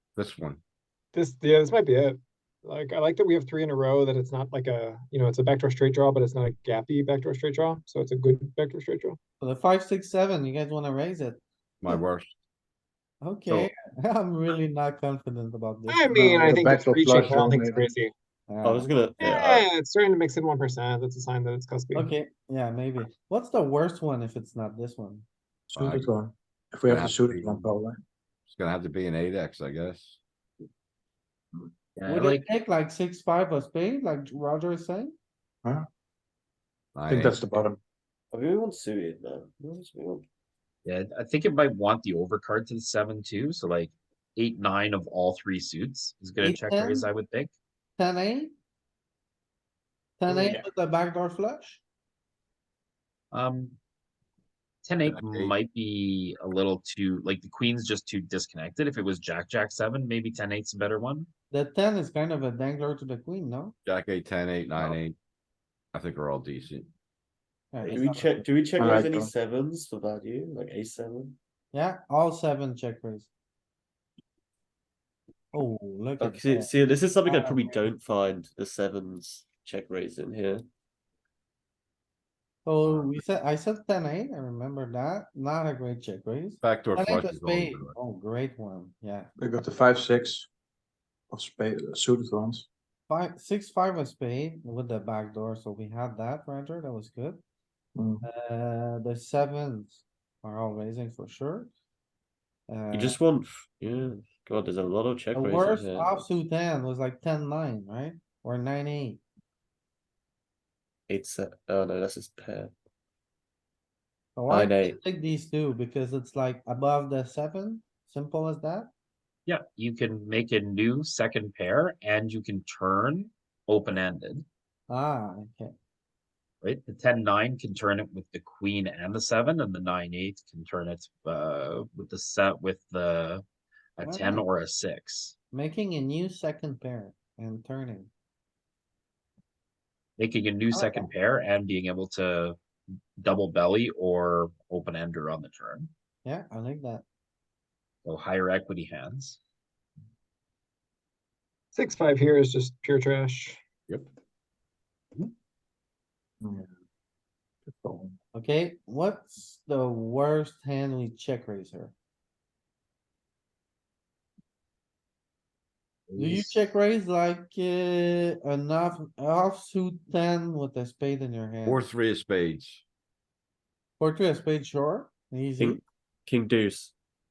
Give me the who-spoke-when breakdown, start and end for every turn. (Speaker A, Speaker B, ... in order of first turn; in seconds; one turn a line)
Speaker A: 0.1-0.6
Speaker B: 1.1-9.2
Speaker C: 9.4-11.4
Speaker A: 11.8-12.3
Speaker C: 13.2-16.6
Speaker B: 15.9-18.1
Speaker D: 16.4-17.8
Speaker C: 18.5-18.9
Speaker E: 18.6-19.7
Speaker B: 19.2-22.1
Speaker C: 21.9-25.2
Speaker D: 25.7-28.0
Speaker A: 25.8-26.1
Speaker A: 26.9-27.7
Speaker A: 28.5-30.2
Speaker F: 32.0-32.5
Speaker C: 32.0-35.1
Speaker A: 36.9-37.4
Speaker D: 37.1-37.8
Speaker E: 38.3-40.2
Speaker F: 40.8-47.5
Speaker C: 46.4-47.1
Speaker C: 48.0-48.5
Speaker C: 50.2-51.8
Speaker D: 50.3-50.6
Speaker F: 53.3-53.8
Speaker F: 54.8-61.3
Speaker A: 55.0-55.5
Speaker C: 61.5-63.7
Speaker A: 63.8-65.2
Speaker A: 65.9-66.9
Speaker C: 67.7-68.9
Speaker E: 67.8-71.4
Speaker D: 68.8-69.3
Speaker C: 71.7-73.3
Speaker C: 75.5-76.7
Speaker E: 76.2-80.7
Speaker C: 77.2-77.8
Speaker C: 82.6-89.3
Speaker A: 86.6-88.0
Speaker D: 89.4-90.5
Speaker D: 91.3-92.7
Speaker C: 93.1-97.4
Speaker D: 98.0-98.2
Speaker C: 98.2-101.7
Speaker C: 102.7-103.2
Speaker E: 102.9-106.2
Speaker C: 105.3-109.2
Speaker E: 111.1-112.7
Speaker C: 114.3-118.9
Speaker E: 114.5-115.0
Speaker F: 119.5-124.4
Speaker C: 124.9-125.7
Speaker F: 126.6-133.4
Speaker F: 134.0-135.3
Speaker C: 134.0-134.4
Speaker C: 135.5-138.1
Speaker F: 140.2-142.6
Speaker C: 140.7-141.1
Speaker F: 143.2-145.9
Speaker C: 146.2-147.0
Speaker F: 148.0-149.4
Speaker B: 151.7-153.6
Speaker D: 156.4-156.7
Speaker D: 157.7-158.1
Speaker C: 158.3-161.9
Speaker E: 166.1-166.6
Speaker C: 166.1-171.8
Speaker A: 171.6-172.8
Speaker C: 174.0-175.8
Speaker E: 175.6-176.9